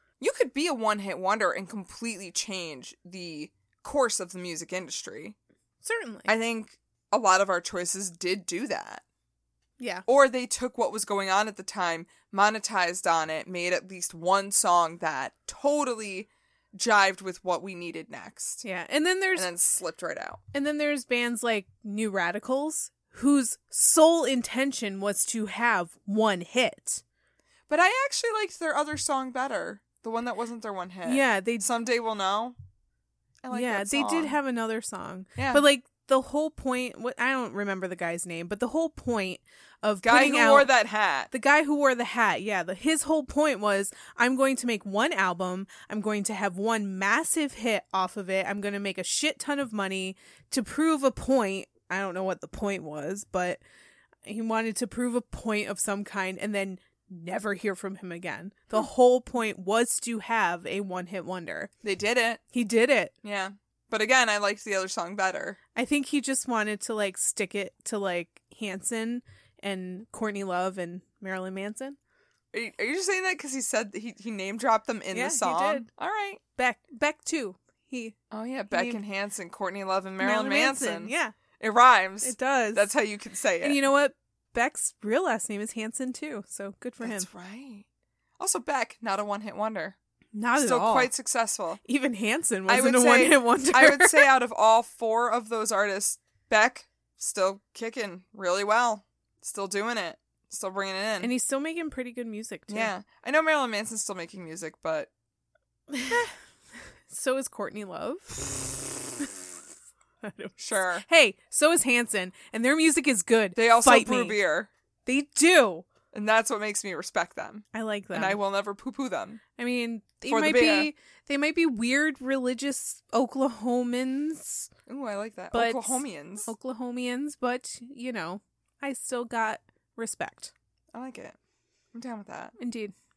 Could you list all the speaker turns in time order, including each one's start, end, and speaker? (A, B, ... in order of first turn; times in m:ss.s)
0:00.2-0:05.4 A
0:05.8-0:06.3 B
0:06.3-0:09.0 A
0:09.8-0:10.1 B
0:10.1-0:18.6 A
0:18.6-0:19.5 B
0:19.4-0:20.4 A
0:20.5-0:27.0 B
0:27.7-0:32.6 A
0:31.0-0:31.6 B
0:33.4-0:34.4 A
0:33.5-0:40.7 B
0:35.4-0:35.6 A
0:40.0-0:41.3 A
0:41.3-0:53.6 B
0:54.2-1:01.7 B
1:01.8-1:02.4 A
1:02.5-1:03.1 B
1:03.2-1:05.6 A
1:05.8-1:12.0 B
1:12.5-1:16.4 A
1:15.1-1:15.9 B
1:16.6-1:18.2 B
1:18.3-1:23.8 A
1:18.7-1:19.0 B
1:20.2-1:21.4 B
1:22.2-1:22.9 B
1:23.6-1:27.3 B
1:27.0-1:27.8 A
1:28.4-1:30.0 A
1:30.4-1:31.1 B
1:30.6-1:31.8 A
1:31.8-1:34.3 B
1:32.7-1:41.3 A
1:41.2-1:42.9 B
1:42.7-1:45.1 A
1:45.9-1:46.3 B
1:47.1-1:48.7 B
1:50.2-1:54.4 B
1:50.6-1:51.1 A
1:53.6-1:54.7 A
1:55.1-1:55.9 B
1:56.1-1:59.4 A
1:57.7-1:58.4 B
1:59.6-2:04.7 B
2:00.3-2:00.9 A
2:04.9-2:06.5 A
2:05.5-2:10.5 B
2:10.9-2:11.4 A
2:11.9-2:12.6 A
2:12.6-2:12.9 B